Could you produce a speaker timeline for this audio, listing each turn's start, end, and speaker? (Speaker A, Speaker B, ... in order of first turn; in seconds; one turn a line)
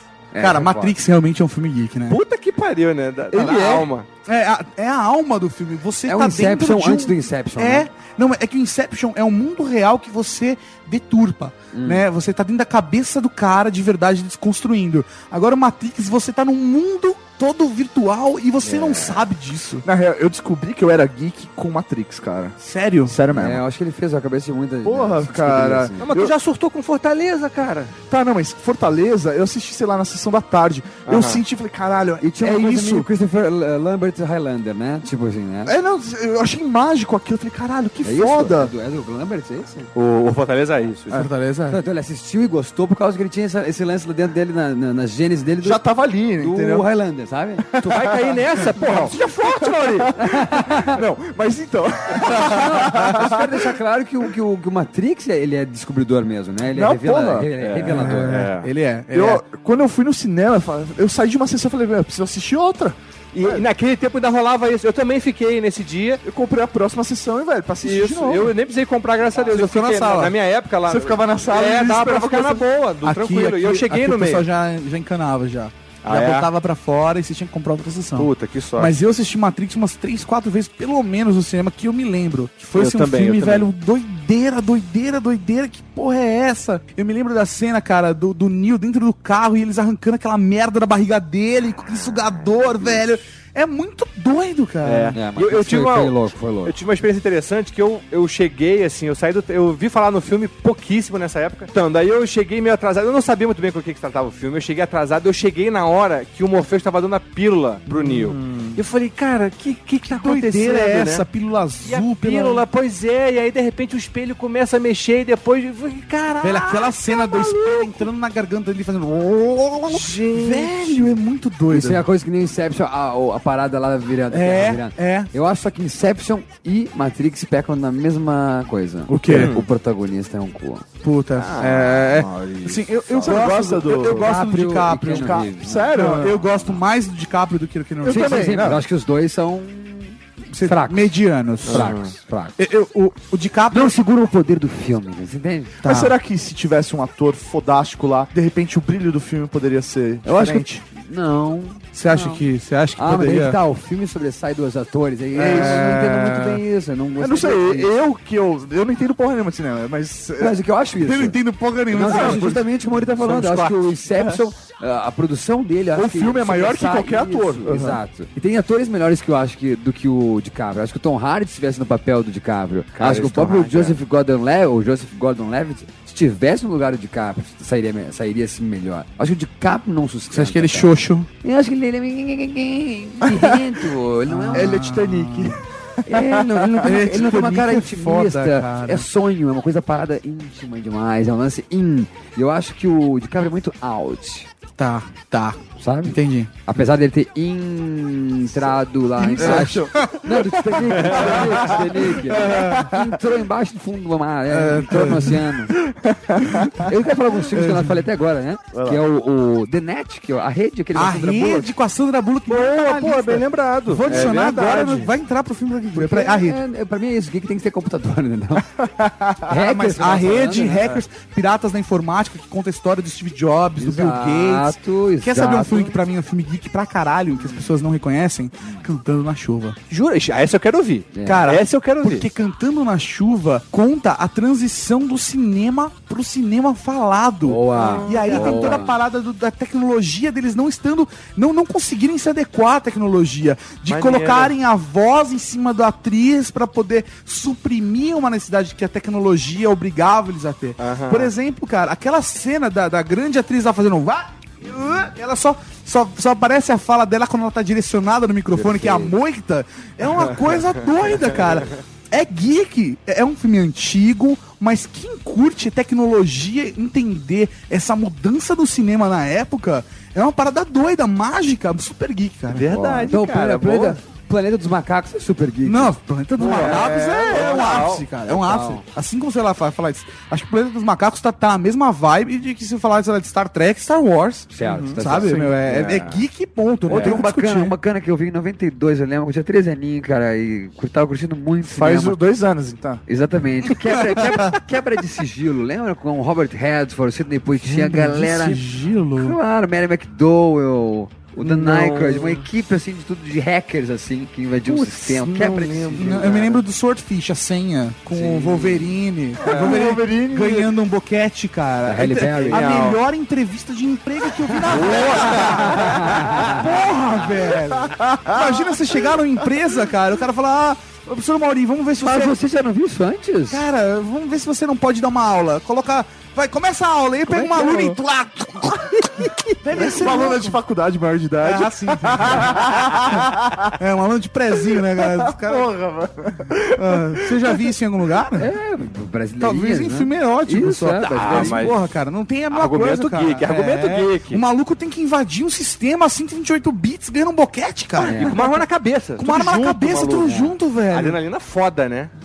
Speaker A: 0.3-0.9
Speaker B: 0.4-2.2
Speaker C: 2.1-4.1
Speaker B: 3.3-19.9
Speaker A: 6.1-7.9
Speaker A: 11.7-12.0
Speaker D: 19.8-23.6
Speaker B: 22.6-23.2
Speaker A: 23.3-26.1
Speaker D: 24.9-26.3
Speaker C: 26.0-27.9
Speaker D: 28.1-33.0
Speaker C: 31.1-31.4
Speaker A: 32.2-35.8
Speaker B: 32.5-33.0
Speaker D: 35.7-38.7
Speaker A: 38.0-39.9
Speaker C: 40.0-41.3
Speaker B: 41.1-41.8
Speaker A: 41.7-45.8
Speaker D: 45.6-46.9
Speaker A: 46.4-47.7
Speaker D: 47.7-53.7
Speaker C: 47.8-50.1
Speaker A: 50.2-51.0
Speaker A: 52.2-58.5
Speaker D: 56.7-57.5
Speaker C: 57.6-58.7
Speaker B: 57.9-59.4
Speaker D: 59.1-63.6
Speaker C: 63.3-66.2
Speaker D: 66.2-68.5
Speaker C: 67.8-74.5
Speaker B: 69.4-70.3
Speaker D: 70.9-72.7
Speaker B: 73.0-95.2
Speaker C: 76.0-76.5
Speaker C: 78.2-78.9
Speaker C: 82.8-83.7
Speaker C: 92.1-93.0
Speaker C: 94.8-111.2
Speaker A: 95.1-96.8
Speaker B: 107.9-108.4
Speaker B: 110.1-112.7
Speaker C: 111.8-118.1
Speaker B: 116.4-122.0
Speaker C: 119.9-121.2
Speaker A: 121.7-130.8
Speaker B: 124.3-125.3
Speaker B: 129.1-129.5
Speaker D: 129.2-129.5
Speaker C: 129.3-129.7
Speaker B: 131.0-138.6
Speaker C: 131.4-133.4
Speaker D: 133.2-134.3
Speaker A: 133.9-136.8
Speaker D: 135.1-136.4
Speaker D: 138.0-138.8
Speaker A: 138.1-142.6
Speaker B: 140.5-142.0
Speaker C: 141.7-142.1
Speaker B: 142.6-144.0
Speaker A: 143.7-145.8
Speaker B: 145.8-146.2
Speaker D: 145.8-150.8
Speaker A: 150.2-152.4
Speaker B: 151.9-153.6
Speaker A: 153.0-157.9
Speaker D: 155.3-156.0
Speaker B: 155.4-156.6
Speaker D: 157.2-160.6
Speaker A: 160.4-185.0
Speaker B: 161.0-162.7
Speaker D: 162.1-162.5
Speaker C: 163.1-163.8
Speaker D: 164.1-164.4
Speaker D: 165.9-168.0
Speaker C: 173.0-174.0
Speaker B: 180.3-181.3
Speaker B: 184.3-185.6
Speaker D: 184.5-186.9
Speaker A: 186.1-194.5
Speaker B: 186.8-189.1
Speaker B: 194.8-196.5
Speaker A: 195.8-205.7
Speaker B: 199.2-200.2
Speaker D: 199.3-202.7
Speaker C: 201.0-201.7
Speaker B: 202.3-202.9
Speaker B: 204.5-205.5
Speaker D: 205.8-206.8
Speaker B: 206.5-206.7
Speaker A: 206.9-211.7
Speaker B: 207.5-208.1
Speaker D: 208.7-209.0
Speaker B: 210.9-216.6
Speaker C: 212.5-215.1
Speaker A: 215.9-218.7
Speaker D: 218.9-219.4
Speaker A: 219.5-221.0
Speaker B: 219.5-229.8
Speaker A: 223.8-226.0
Speaker C: 229.9-232.3
Speaker A: 231.1-231.4
Speaker B: 231.2-272.8
Speaker A: 237.4-239.0
Speaker C: 237.8-238.7
Speaker C: 243.9-244.5
Speaker C: 250.8-251.3
Speaker A: 258.5-259.2
Speaker C: 272.5-274.0
Speaker A: 272.7-275.9
Speaker B: 275.6-287.8
Speaker C: 276.4-278.1
Speaker D: 276.6-277.4
Speaker A: 278.3-278.8
Speaker A: 284.5-286.1
Speaker C: 284.6-285.3
Speaker C: 285.9-286.2
Speaker A: 286.9-292.2
Speaker C: 286.9-287.1
Speaker D: 291.6-293.0
Speaker A: 293.1-298.6
Speaker B: 294.1-294.6
Speaker B: 297.6-299.4
Speaker A: 299.2-306.5
Speaker C: 301.4-302.4
Speaker C: 304.7-306.6
Speaker B: 305.9-322.4
Speaker A: 308.2-308.7
Speaker C: 309.4-309.8
Speaker D: 309.5-310.7
Speaker A: 311.9-312.6
Speaker C: 312.5-313.0
Speaker A: 314.6-316.7
Speaker C: 314.8-315.2
Speaker D: 317.8-318.8
Speaker A: 322.0-323.6
Speaker B: 323.5-330.6
Speaker A: 327.4-327.9
Speaker D: 329.8-333.7
Speaker B: 331.4-333.1
Speaker B: 333.8-335.7
Speaker D: 334.9-337.6
Speaker B: 336.8-338.5
Speaker A: 338.4-341.6
Speaker B: 339.4-351.2
Speaker C: 341.2-341.8
Speaker C: 342.5-344.4
Speaker A: 348.0-348.4
Speaker C: 348.2-352.1